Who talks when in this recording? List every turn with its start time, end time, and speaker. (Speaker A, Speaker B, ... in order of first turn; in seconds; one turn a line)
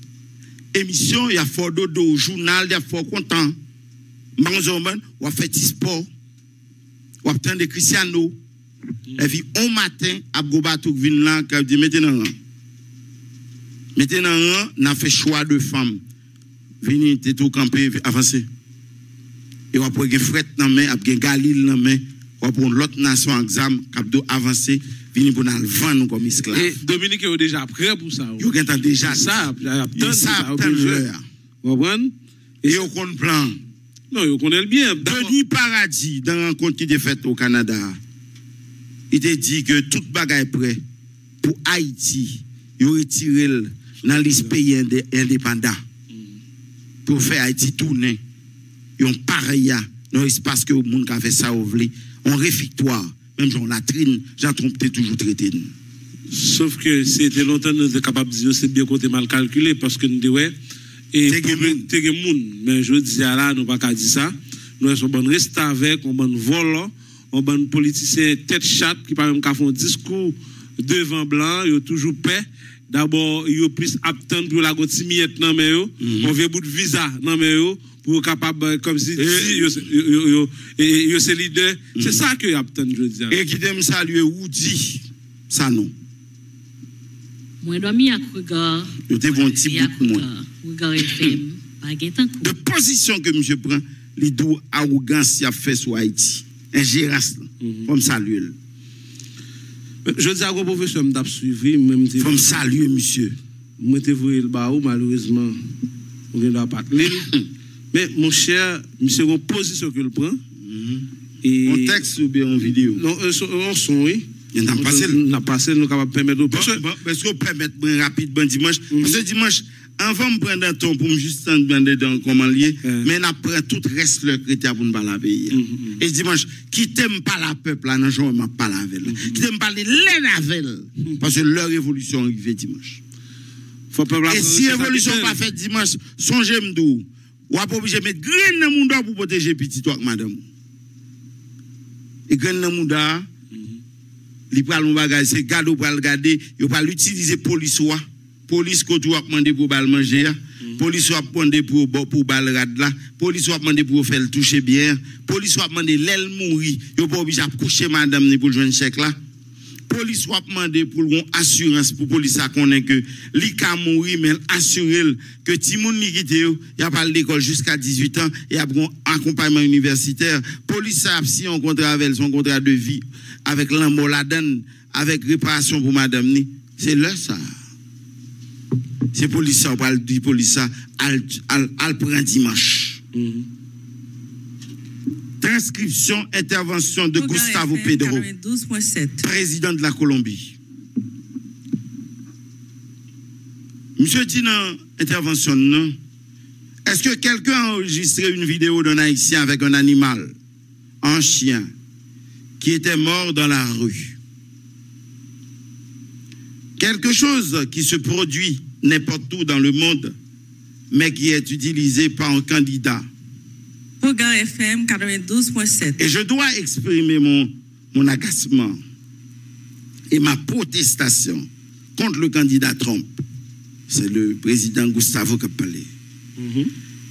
Speaker A: 0.7-3.6
Speaker A: 4.4-6.1
Speaker A: 7.2-8.4
Speaker A: 9.2-12.3
Speaker A: 14.0-16.0
Speaker A: 16.8-18.5
Speaker A: 19.7-26.8
Speaker B: 26.5-31.1
Speaker A: 28.4-31.2
Speaker B: 31.6-32.9
Speaker A: 32.7-33.6
Speaker B: 34.1-35.4
Speaker A: 35.0-38.0
Speaker A: 39.1-40.8
Speaker A: 41.4-45.8
Speaker A: 47.1-48.2
Speaker A: 49.0-55.7
Speaker B: 56.3-60.6
Speaker B: 61.1-83.4
Speaker A: 61.2-61.9
Speaker A: 76.0-76.3
Speaker A: 79.2-79.8
Speaker A: 82.0-82.2
Speaker A: 83.3-85.9
Speaker C: 87.6-92.6
Speaker A: 89.1-90.3
Speaker A: 92.4-98.5
Speaker B: 97.6-97.9
Speaker B: 100.0-102.6
Speaker A: 102.2-103.4
Speaker B: 103.8-105.6
Speaker B: 106.3-107.4
Speaker B: 107.9-110.4
Speaker A: 110.6-111.1
Speaker B: 111.4-112.0
Speaker A: 111.6-113.0
Speaker B: 112.7-116.8
Speaker A: 114.5-115.2
Speaker A: 116.5-133.0
Speaker B: 118.9-119.2
Speaker B: 125.5-126.0
Speaker B: 129.1-129.4
Speaker B: 133.9-135.4
Speaker A: 134.3-140.4
Speaker A: 142.3-143.3
Speaker A: 144.5-159.2
Speaker A: 159.9-177.5
Speaker A: 179.1-183.0
Speaker B: 183.1-183.5
Speaker A: 185.4-188.3
Speaker D: 187.2-189.2
Speaker A: 189.2-190.6
Speaker A: 194.0-196.0
Speaker A: 196.9-200.3
Speaker A: 201.0-201.7
Speaker A: 202.6-204.2
Speaker A: 206.8-210.1
Speaker A: 210.9-213.1
Speaker D: 214.0-216.0
Speaker A: 216.0-218.8
Speaker A: 220.1-223.2
Speaker A: 223.9-225.9
Speaker B: 226.4-226.7